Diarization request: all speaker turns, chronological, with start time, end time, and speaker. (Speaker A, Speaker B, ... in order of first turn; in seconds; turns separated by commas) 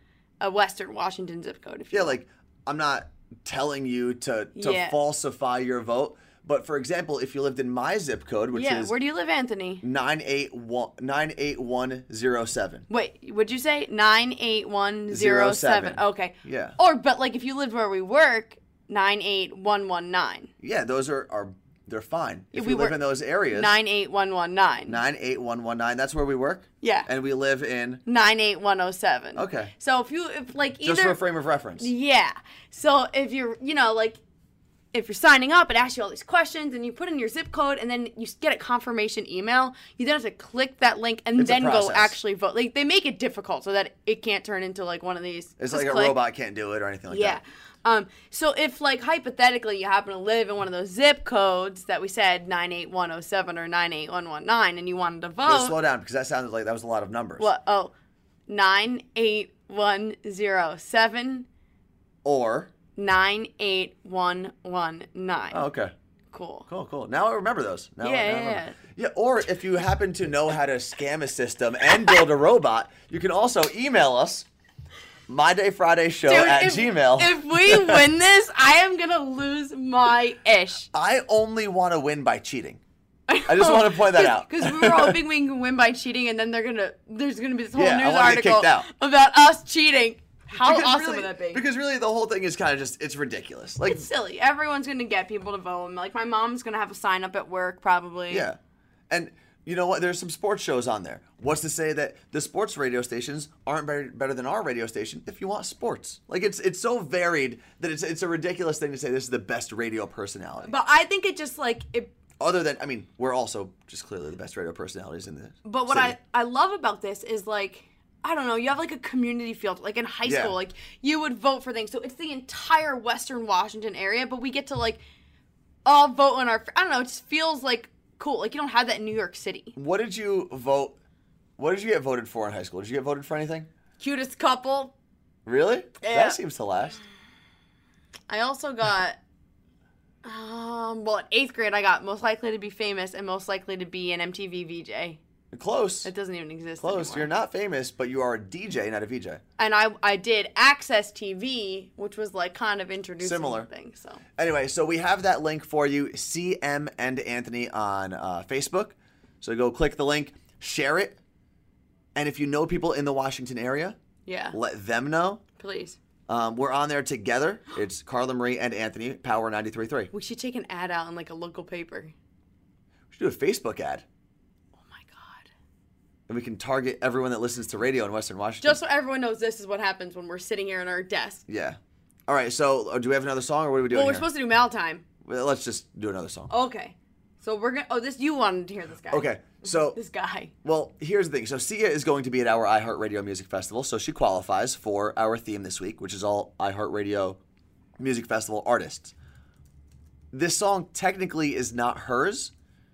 Speaker A: 0.4-2.2, Speaker B: 1.9-8.9, Speaker A: 4.5-5.0, Speaker A: 8.5-9.8, Speaker B: 9.8-12.9, Speaker A: 12.9-20.5, Speaker B: 15.1-16.8, Speaker B: 20.6-23.7, Speaker A: 22.5-25.0, Speaker B: 24.9-28.0, Speaker A: 26.8-27.1, Speaker A: 28.1-31.2, Speaker B: 29.3-29.7, Speaker B: 30.8-31.9, Speaker A: 31.8-34.2, Speaker A: 34.9-46.2, Speaker B: 41.4-42.1, Speaker B: 45.6-47.4, Speaker A: 47.1-55.8, Speaker B: 55.4-57.5, Speaker A: 57.4-57.9, Speaker A: 58.5-61.5, Speaker B: 62.2-62.7, Speaker A: 63.0-65.6, Speaker B: 65.5-65.9, Speaker A: 66.3-66.7, Speaker B: 66.7-74.5, Speaker A: 68.0-68.8, Speaker B: 75.3-78.0, Speaker A: 76.2-80.9, Speaker B: 80.9-82.8, Speaker A: 83.3-91.6, Speaker B: 83.5-85.2, Speaker B: 87.7-88.9, Speaker B: 90.5-94.1, Speaker A: 93.8-98.5, Speaker B: 98.3-98.6, Speaker B: 99.1-110.7, Speaker A: 110.6-112.1, Speaker B: 112.4-116.2, Speaker A: 115.6-125.0, Speaker B: 120.2-120.6, Speaker A: 125.8-129.7, Speaker B: 129.7-130.9, Speaker B: 131.6-133.7, Speaker A: 134.0-134.9, Speaker B: 135.4-137.0, Speaker A: 136.0-136.4, Speaker A: 138.3-139.2, Speaker A: 140.2-145.2, Speaker B: 145.5-146.1, Speaker A: 146.0-147.3, Speaker B: 146.8-149.4, Speaker A: 149.6-154.2, Speaker B: 153.2-153.7, Speaker B: 154.4-161.2, Speaker B: 162.1-164.0, Speaker A: 164.2-164.6, Speaker B: 164.5-165.4, Speaker A: 165.6-166.0, Speaker B: 166.3-170.1, Speaker A: 170.1-172.1, Speaker B: 173.1-174.0, Speaker A: 174.8-175.4, Speaker B: 176.3-178.8, Speaker A: 178.6-181.4, Speaker B: 181.5-184.3, Speaker A: 183.9-185.0, Speaker B: 185.2-186.5, Speaker A: 186.5-190.5, Speaker B: 189.1-190.0, Speaker B: 190.6-197.4, Speaker B: 198.0-199.1, Speaker B: 200.3-202.5